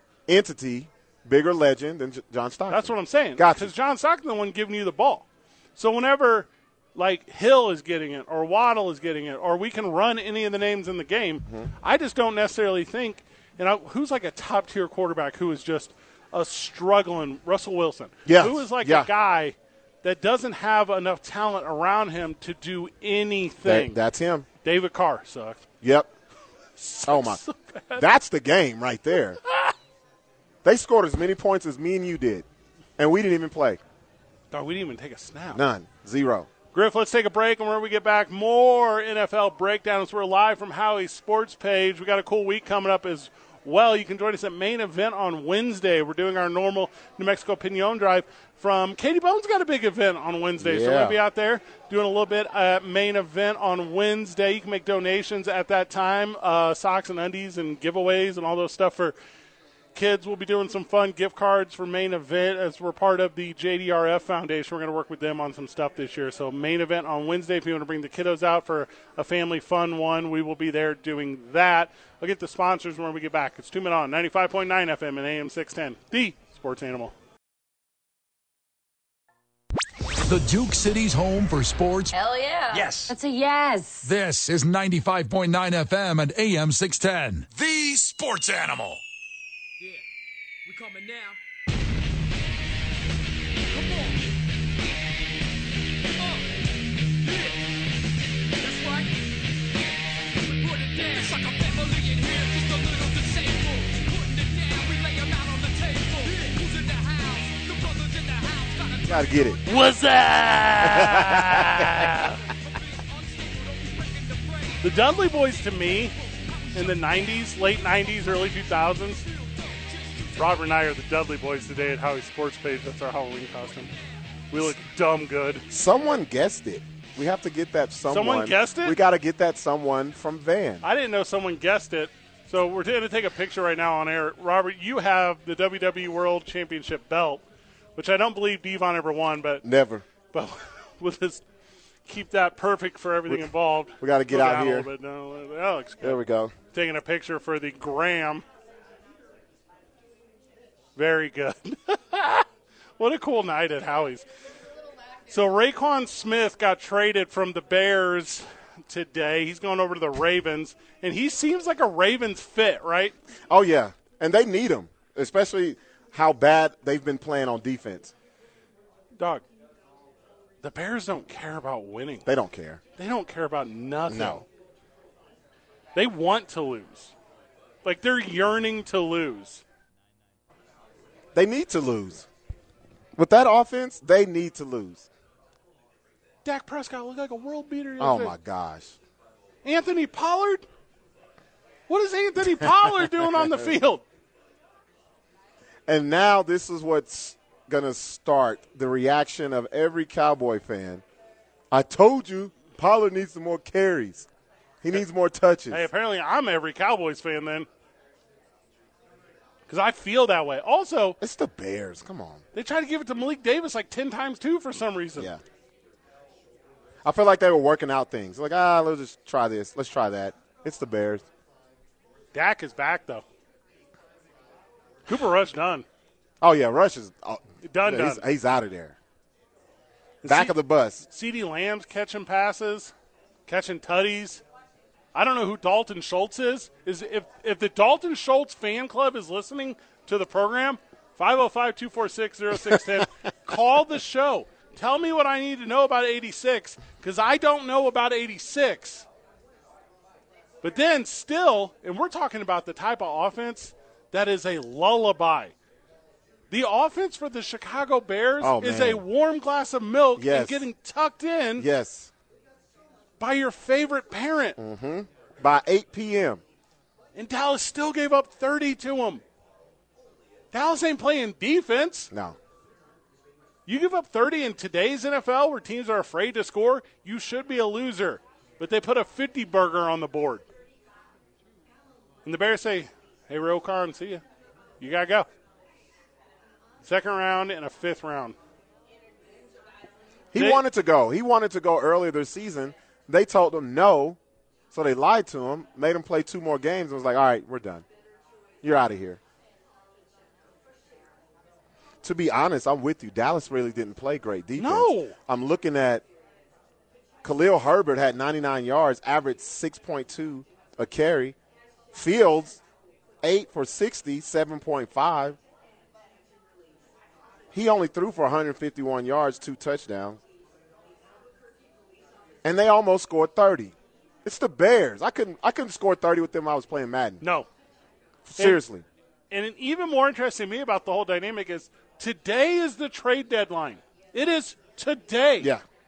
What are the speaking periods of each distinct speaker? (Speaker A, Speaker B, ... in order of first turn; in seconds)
Speaker A: 0.3-3.7, 18.3-19.1, 23.6-24.5, 25.8-26.1, 27.1-27.4, 28.0-29.4, 30.6-32.5, 33.0-33.8, 35.5-36.5, 50.6-51.2, 109.1-109.6, 110.8-111.9, 125.7-130.8, 139.6-140.0, 144.0-144.9, 146.0-146.5, 163.5-168.1, 172.3-172.8, 174.1-174.4, 181.3-182.3, 183.2-185.1, 188.0-189.0, 195.9-201.0, 201.7-204.3, 204.8-205.9, 211.2-212.4, 217.0-221.2, 226.4-229.0, 230.2-231.1, 258.4-259.0, 260.2-260.7, 261.6-262.1, 264.6-266.4, 272.1-272.4, 290.3-294.2, 294.7-297.9, 298.6-299.2, 302.0-306.0, 307.2-311.4, 311.9-312.6, 313.2-315.4, 317.5-320.2, 322.4-327.2, 328.2-328.9, 335.4-335.6
Speaker B: 2.7-24.0, 24.6-25.6, 26.8-28.1, 34.5-35.6, 36.7-59.2, 60.0-77.1, 109.7-112.4, 114.8-116.2, 116.8-119.2, 120.4-123.9, 124.5-125.7, 128.1-129.0, 130.8-137.4, 138.0-139.6, 140.3-141.4, 142.1-146.2, 146.7-148.4, 151.0-152.5, 153.0-154.3, 155.3-163.2, 169.2-169.4, 170.6-172.3, 173.0-174.5, 175.9-177.1, 177.8-179.6, 186.4-188.3, 189.6-190.7, 191.9-194.0, 205.7-207.7, 209.7-211.2, 212.5-215.3, 222.3-223.2, 225.1-225.9, 227.6-228.2, 230.2-232.9, 233.5-234.4, 235.1-249.1, 250.6-255.5, 256.5-261.7, 263.2-264.6, 267.1-269.2, 270.5-272.1, 273.7-280.4, 282.2-284.2, 284.8-285.3, 286.8-288.4, 290.4-290.6, 304.6-305.1, 327.2-327.5, 329.3-335.5
Speaker C: 80.2-82.2, 82.7-83.1, 84.0-89.0
Speaker D: 82.1-84.1
Speaker E: 90.7-91.4, 93.7-94.3, 96.2-97.8, 98.6-109.9, 111.9-120.7